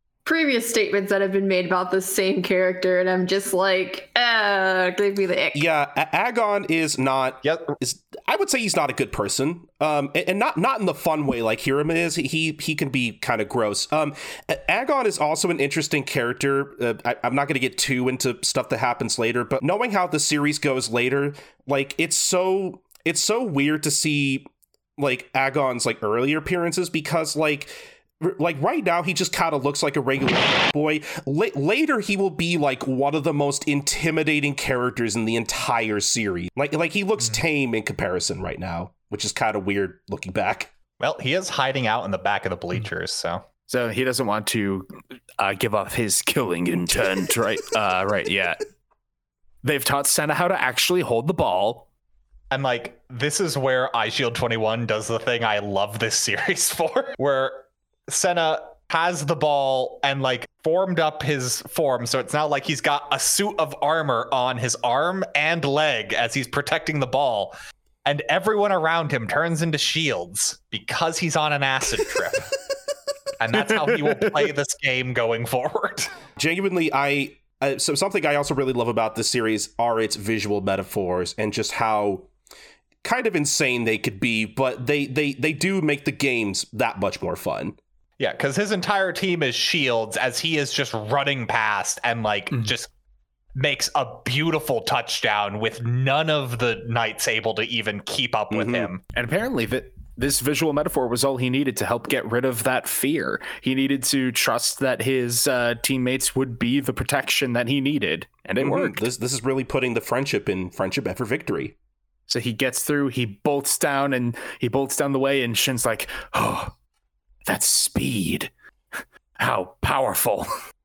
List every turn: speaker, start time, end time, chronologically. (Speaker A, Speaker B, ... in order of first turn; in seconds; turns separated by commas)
Speaker A: 0.2-5.6, Speaker B: 5.5-40.7, Speaker C: 7.4-7.7, Speaker C: 41.0-43.4, Speaker D: 43.7-48.6, Speaker D: 49.6-51.9, Speaker C: 52.5-72.5, Speaker C: 73.4-76.2, Speaker D: 73.5-74.5, Speaker B: 76.4-82.3, Speaker B: 83.0-87.8, Speaker C: 88.2-92.9, Speaker C: 93.5-99.0, Speaker B: 98.5-98.9, Speaker D: 99.1-109.0, Speaker B: 108.6-111.7, Speaker D: 112.3-116.7, Speaker D: 117.5-118.5, Speaker D: 119.4-120.5